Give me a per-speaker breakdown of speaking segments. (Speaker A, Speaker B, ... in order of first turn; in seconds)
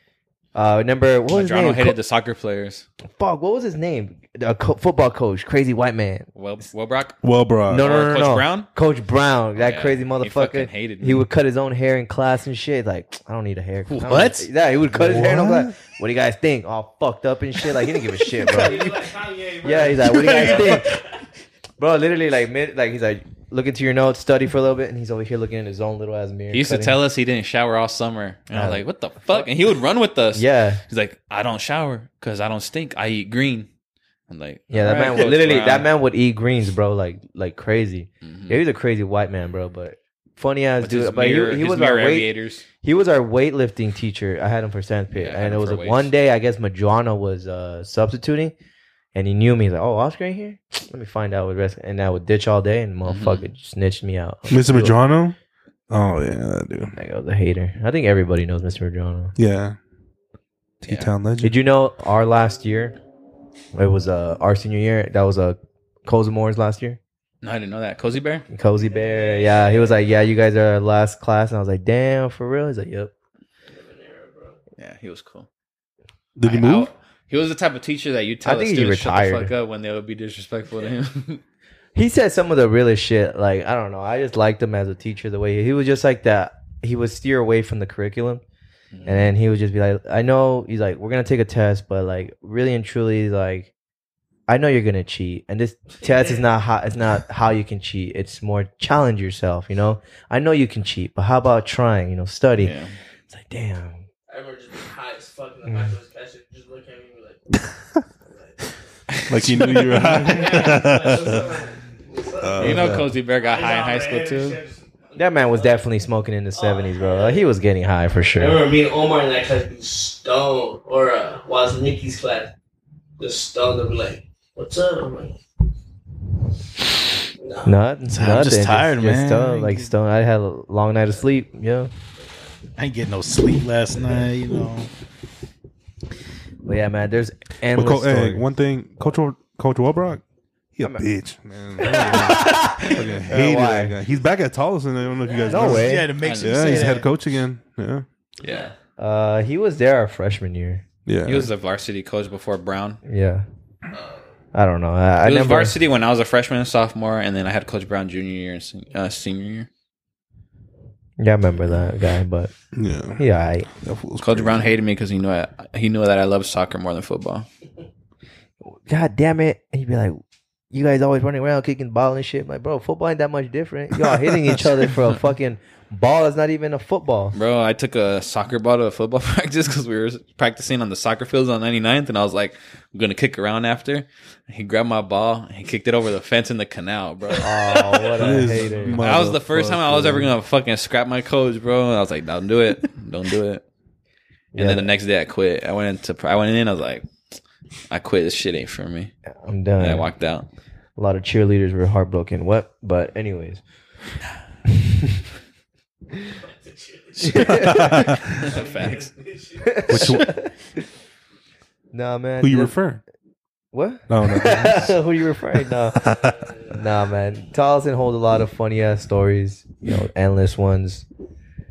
Speaker A: 0.6-2.0, 3.2-6.3, 7.7-19.1, 19.6-21.0, 21.8-27.0, 28.5-29.5, 30.3-30.8, 34.7-42.3, 42.8-48.5, 49.1-55.0, 57.0-59.4, 61.4-63.0, 63.7-67.0, 68.5-73.1, 78.4-79.5, 82.0-88.4, 89.1-93.7, 94.5-102.8, 103.3-104.0, 105.7-105.9, 112.6-113.1, 115.2-118.6, 127.7-131.9, 136.7-138.4, 141.8-143.9, 145.5-146.2, 149.0-150.8, 153.1-153.4, 154.5-155.8, 161.2-162.5, 163.2-163.7, 168.8-170.2, 170.7-177.3, 187.4-190.3, 194.5-194.9, 199.4-200.1, 201.0-203.6, 204.7-205.2, 207.2-208.2, 209.6-210.5, 211.9-212.8, 213.7-216.1, 216.7-221.1
Speaker B: 1.3-2.9, 6.3-7.2, 7.8-8.7, 9.6-11.3, 26.5-33.7, 34.3-35.9, 38.2-38.6, 40.8-42.7, 45.1-46.1, 53.0-53.5, 60.9-61.1, 67.4-68.5, 74.8-75.5, 76.4-81.4, 88.9-89.3, 102.6-103.0, 109.2-110.3, 112.6-114.6, 146.2-147.0, 148.4-148.7, 151.2-153.0, 155.2-159.7, 164.2-167.5, 177.3-188.4, 189.0-193.6, 194.6-197.1, 197.9-199.1, 199.8-200.5, 208.4-209.1
Speaker C: 7.2-7.9, 14.9-15.8, 54.5-55.4, 55.9-57.0, 59.4-59.8, 60.8-61.6, 76.4-76.9, 109.3-111.5, 112.4-113.0, 137.7-140.2, 140.8-148.1, 151.1-151.5, 162.7-163.2, 163.8-164.7, 188.2-190.2, 207.3-208.5, 209.9-210.3, 212.4-213.0, 214.1-215.0, 215.9-216.4
Speaker D: 13.9-14.5, 20.0-20.8, 128.1-129.9, 132.8-134.9, 145.6-147.1
Speaker E: 18.4-21.2, 68.8-70.1, 73.7-74.6, 96.0-96.4, 104.3-107.5, 108.2-108.6, 110.0-115.9, 116.5-117.5, 118.3-122.5, 123.2-125.4, 127.4-127.7, 141.9-142.7, 145.2-145.7, 148.4-148.7, 153.9-154.3, 206.4-210.2, 215.9-216.8